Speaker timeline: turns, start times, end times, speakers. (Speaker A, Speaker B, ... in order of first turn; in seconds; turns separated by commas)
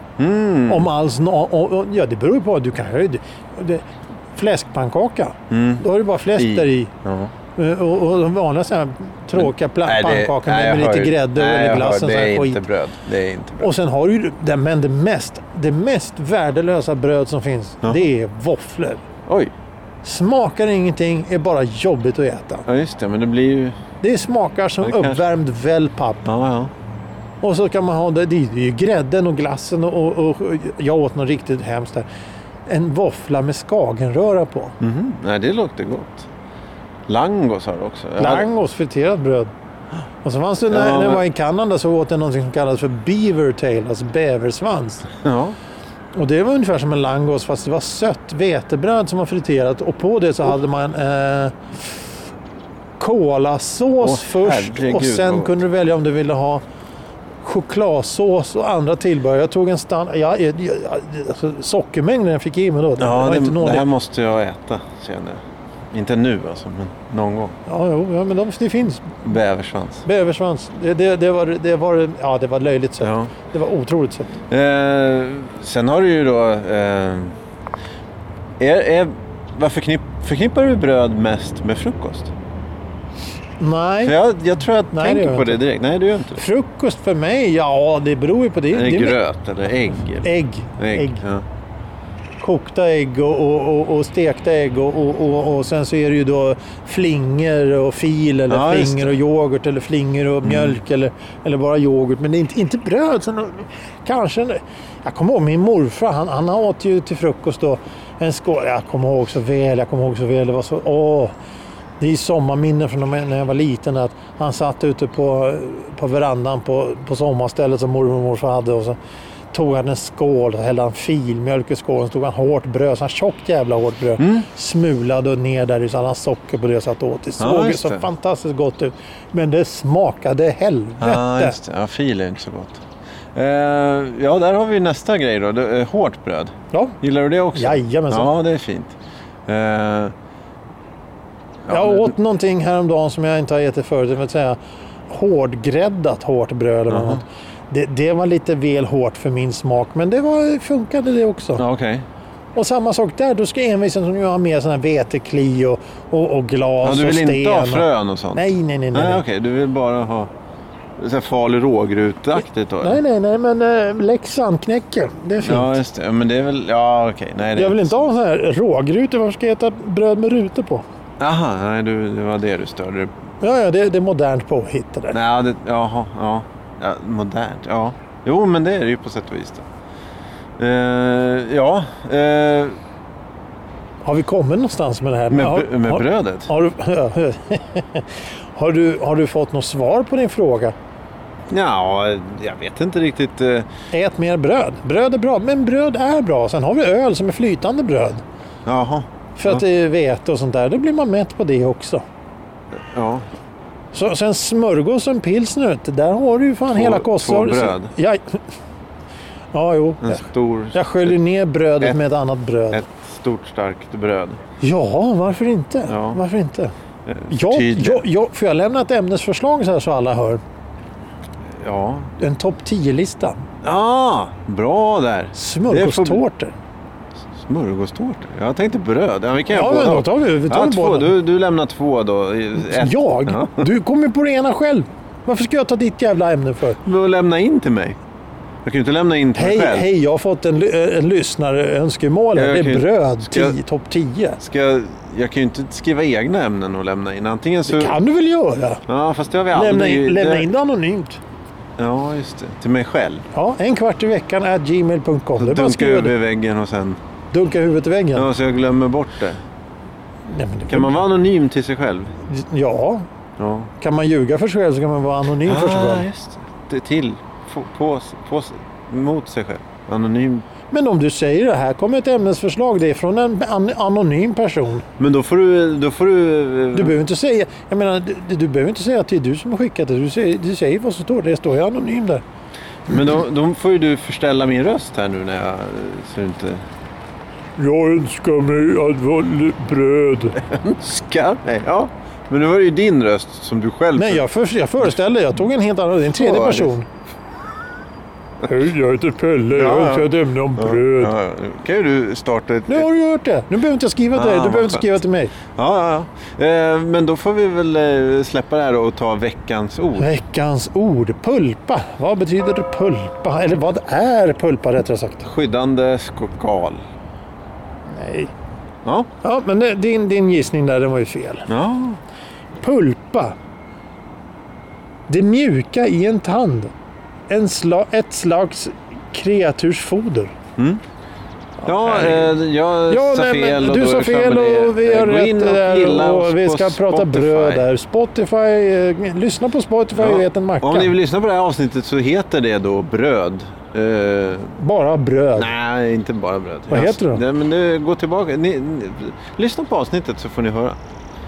Speaker A: 0.2-0.9, Speaker B: 0.7-6.9, Speaker A: 5.5-5.8, Speaker A: 6.3-7.3, Speaker B: 7.5-12.6, Speaker A: 9.3-13.7, Speaker B: 13.6-19.0, Speaker A: 19.3-19.5, Speaker B: 20.0-22.6, Speaker A: 22.7-23.8, Speaker B: 24.0-26.2, Speaker A: 24.8-25.2, Speaker A: 26.2-26.7, Speaker B: 27.4-32.0, Speaker B: 32.7-34.8, Speaker A: 34.8-36.3, Speaker A: 37.1-38.5, Speaker B: 38.2-39.5, Speaker B: 40.2-45.1, Speaker A: 40.7-41.2, Speaker A: 45.2-45.5, Speaker B: 46.1-51.6, Speaker B: 53.0-56.6, Speaker A: 54.0-55.5, Speaker B: 57.4-63.9, Speaker A: 63.0-65.4, Speaker A: 65.9-67.5, Speaker B: 67.7-69.2, Speaker A: 69.2-70.0, Speaker B: 70.0-74.3, Speaker A: 73.0-73.3, Speaker A: 74.5-77.4, Speaker A: 78.6-82.3, Speaker B: 83.6-84.2, Speaker A: 84.0-86.4, Speaker B: 84.9-85.6, Speaker B: 86.3-89.2, Speaker A: 88.7-90.3, Speaker B: 90.2-91.2, Speaker A: 90.8-91.4, Speaker B: 92.4-111.3, Speaker A: 98.5-99.1, Speaker A: 100.4-100.8, Speaker B: 112.0-119.0, Speaker B: 119.5-131.6, Speaker A: 124.2-124.5, Speaker A: 127.4-128.1, Speaker A: 131.0-132.8, Speaker A: 133.3-138.9, Speaker B: 136.7-137.0, Speaker B: 137.5-138.3, Speaker A: 139.5-140.1, Speaker A: 141.7-142.1, Speaker B: 141.7-151.6, Speaker A: 146.9-147.2, Speaker A: 151.6-152.1, Speaker B: 152.5-159.2, Speaker A: 156.8-160.3, Speaker A: 161.0-163.0, Speaker B: 162.8-165.8, Speaker A: 165.4-167.9, Speaker B: 167.6-170.8, Speaker A: 171.2-173.1, Speaker B: 173.4-175.2, Speaker A: 175.1-179.6, Speaker A: 180.6-182.8, Speaker B: 184.0-190.7, Speaker A: 185.3-186.5, Speaker A: 191.5-193.7, Speaker B: 193.9-198.2, Speaker A: 198.7-199.6, Speaker B: 199.3-202.0, Speaker A: 202.7-203.2, Speaker B: 203.9-208.4, Speaker A: 206.7-207.9, Speaker B: 209.5-212.8, Speaker A: 210.0-211.2, Speaker A: 212.7-214.4, Speaker B: 214.6-216.7, Speaker A: 215.9-216.2, Speaker A: 217.1-218.0, Speaker B: 217.3-220.4, Speaker A: 221.6-222.1, Speaker B: 222.2-223.4, Speaker A: 223.6-226.2, Speaker B: 225.3-226.6, Speaker A: 227.3-233.6, Speaker B: 229.5-231.1, Speaker B: 232.6-236.8, Speaker A: 236.8-238.0, Speaker A: 238.6-239.9, Speaker B: 239.3-244.4, Speaker A: 242.3-243.6, Speaker A: 244.4-247.9, Speaker B: 247.7-248.8, Speaker A: 248.9-250.5, Speaker B: 249.5-251.2, Speaker A: 251.8-253.2, Speaker B: 253.3-256.1, Speaker A: 255.4-257.0, Speaker B: 257.3-258.3, Speaker A: 258.1-259.4, Speaker B: 260.3-261.0, Speaker A: 260.7-262.1, Speaker B: 262.2-263.1, Speaker A: 263.4-263.7, Speaker B: 263.8-266.1, Speaker A: 265.4-270.4, Speaker B: 270.7-274.8, Speaker A: 275.0-276.9, Speaker B: 276.7-282.2, Speaker A: 282.9-286.6, Speaker B: 287.6-290.4, Speaker A: 290.4-294.2, Speaker B: 293.9-296.9, Speaker A: 296.1-296.7, Speaker B: 298.4-301.1, Speaker A: 299.5-302.9, Speaker B: 302.7-305.3, Speaker A: 304.1-304.8, Speaker A: 305.6-310.1, Speaker B: 310.0-315.2, Speaker A: 315.2-316.8, Speaker B: 317.9-318.3, Speaker B: 319.2-321.5, Speaker A: 321.5-322.0, Speaker B: 322.6-323.4, Speaker B: 325.1-326.7, Speaker B: 327.3-330.3, Speaker B: 331.6-332.4, Speaker A: 331.6-337.6, Speaker B: 332.9-340.9, Speaker A: 339.9-344.6, Speaker B: 344.6-345.5, Speaker A: 345.4-350.8, Speaker B: 346.7-347.2